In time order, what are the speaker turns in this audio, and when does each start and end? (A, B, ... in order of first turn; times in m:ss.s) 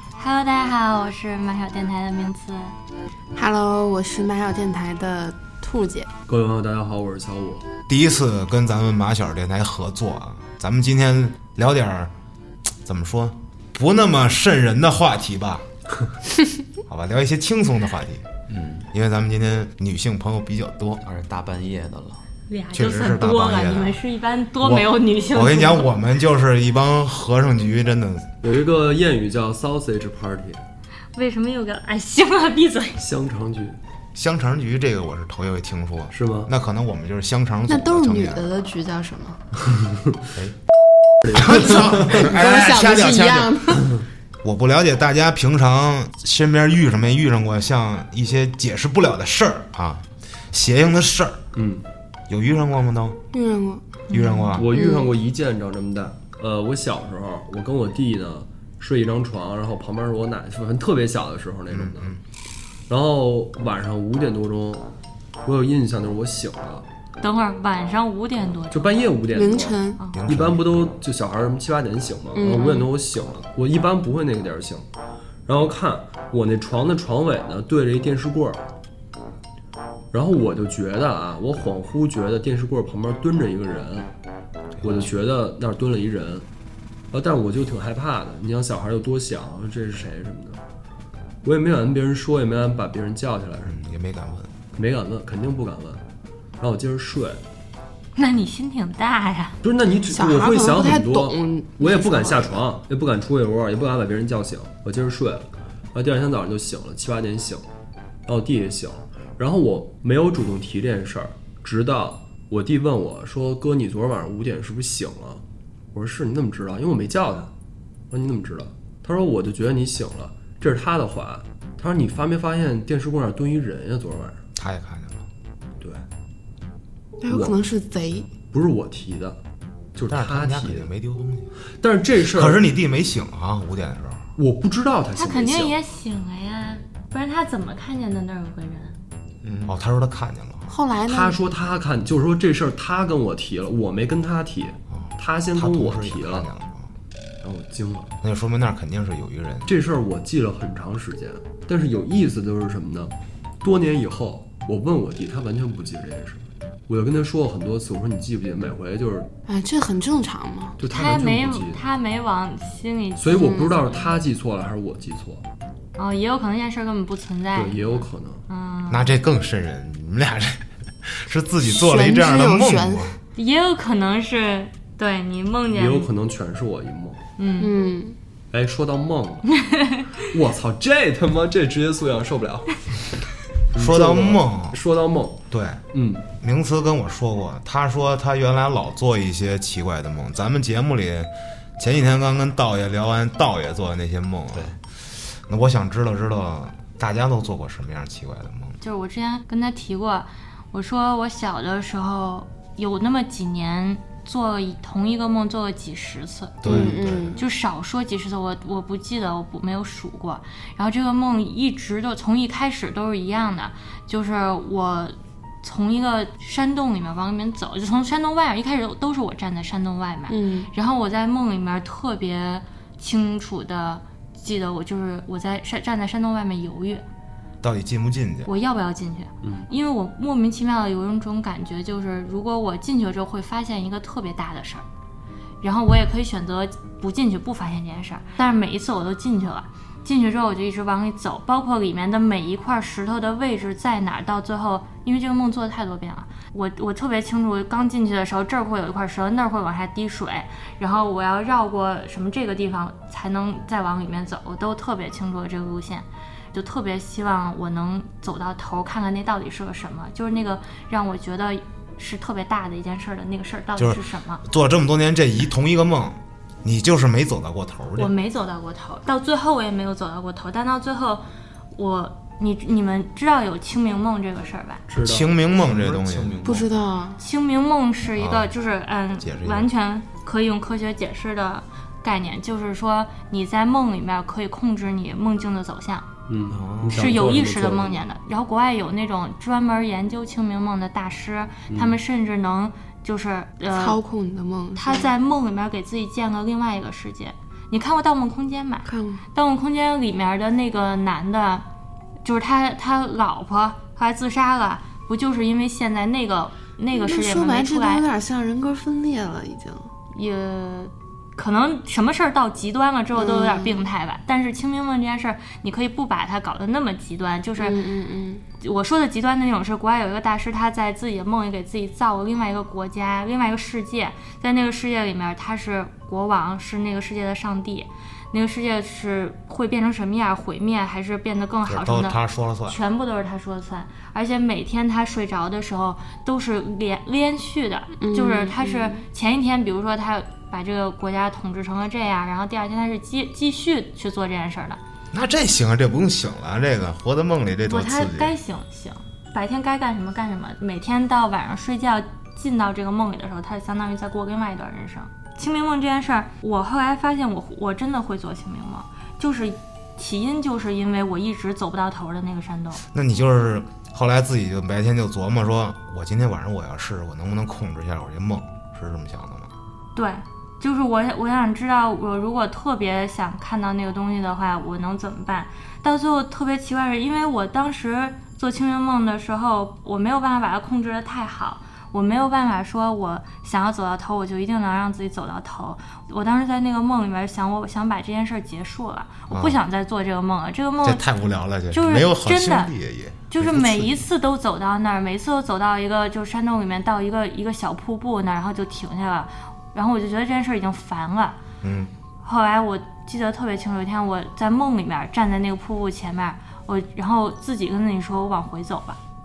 0:00.2-0:02.8 A
0:03.4-0:06.1 B
0:06.3-0:07.7 C
0:07.9-0:12.1 D
0:12.8-0:15.6 D
0:16.9-0:18.3 D
0:18.5-0:18.9 E
0:18.9-0:21.0 D
0:21.0-0:22.2 E
0:22.5-0:25.9 A
0:22.7-0:24.0 D
0:24.6-0:28.3 D
0:28.4-0:30.6 C
0:31.1-0:33.0 A
0:33.0-0:33.8 C
0:34.1-0:38.4 D
0:36.1-0:36.5 C
0:37.7-0:39.4 B
0:41.2-0:42.2 C
0:41.3-0:43.7 D
0:41.5-0:43.9 B
0:44.4-0:51.4 D
0:51.6-0:51.8 C
0:52.3-0:53.2 D
0:53.3-0:53.8 B
0:54.1-0:54.6 A
0:54.1-0:54.7 D
0:54.6-1:02.2 C
0:54.7-0:55.1 B
1:01.7-1:02.2 D
1:02.9-1:04.9 C
1:05.4-1:06.9 C
1:07.2-1:09.0 A
1:08.7-1:14.8 C
1:09.3-1:10.0 B
1:10.1-1:10.8 D
1:12.4-1:12.9 B
1:15.4-1:18.6 C
1:20.1-1:24.1 C
1:24.8-1:26.4 C
1:27.1-1:30.6 C
1:31.4-1:33.8 C
1:33.6-1:34.5 D
1:34.7-1:36.0 C
1:36.6-1:37.4 C
1:38.2-1:39.6 A
1:39.6-1:47.6 C
1:40.1-1:42.6 B
1:48.3-1:55.4 C
1:55.9-1:57.5 C
1:58.1-2:04.4 C
2:04.6-2:05.3 D
2:07.2-2:08.3 B
2:07.3-2:07.6 C
2:08.5-2:09.4 C
2:09.9-2:10.9 C
2:10.1-2:11.5 D
2:11.8-2:12.6 C
2:12.3-2:14.3 D
2:14.4-2:15.8 C
2:15.1-2:18.9 A
2:19.4-2:19.7 E
2:19.7-2:20.8 D
2:20.7-2:21.4 B
2:21.0-2:26.5 C
2:24.9-2:26.9 D
2:27.4-2:28.1 C
2:28.2-2:29.7 D
2:29.7-2:39.3 C
2:39.5-2:40.8 B
2:40.8-2:41.8 C
2:40.8-2:44.1 A
2:43.2-2:45.4 C
2:43.3-2:43.7 B
2:46.0-2:49.1 A
2:47.6-2:48.4 C
2:48.9-2:53.2 D
2:51.7-2:53.2 B
2:53.4-2:56.1 A
2:55.7-2:57.2 C
2:57.4-2:57.7 A
2:57.6-2:58.2 B
2:58.5-2:59.5 C
2:59.6-3:00.1 A
3:00.1-3:02.8 C
3:03.7-3:05.4 C
3:03.8-3:04.8 D
3:05.5-3:05.8 D
3:05.9-3:06.2 C
3:06.4-3:14.8 D
3:15.4-3:18.8 D
3:18.8-3:26.7 A
3:26.6-3:27.4 D
3:26.6-3:27.4 B
3:26.7-3:26.9 C
3:27.4-3:47.0 A
3:40.3-3:40.7 B
3:47.6-3:48.5 D
3:48.5-3:54.8 A
3:49.4-3:49.7 C
3:55.6-4:24.4 A
4:23.8-4:28.1 D
4:28.0-4:34.8 A
4:34.9-4:35.3 C
4:35.0-4:36.6 D
4:35.5-4:36.7 E
4:36.4-4:37.2 B
4:37.2-4:46.1 A
4:38.2-4:38.5 D
4:39.2-4:39.7 D
4:46.3-4:48.0 C
4:46.5-4:47.1 E
4:46.9-4:54.0 A
4:51.7-4:52.0 C
4:53.7-4:55.1 B
4:54.8-5:01.6 A
4:58.9-4:59.2 B
5:02.2-5:08.0 A
5:06.9-5:09.9 B
5:10.1-5:17.8 A
5:13.1-5:13.8 B
5:17.6-5:18.4 B
5:18.6-5:44.8 A
5:31.7-5:32.8 D
5:38.0-5:39.0 B
5:45.1-5:48.3 D
5:47.6-6:02.8 A
6:02.9-6:09.5 D
6:09.9-6:31.0 A
6:29.3-6:29.6 D
6:30.8-6:34.1 D
6:31.7-6:32.7 A
6:33.3-6:41.4 A
6:41.6-6:41.9 D
6:42.2-6:49.0 A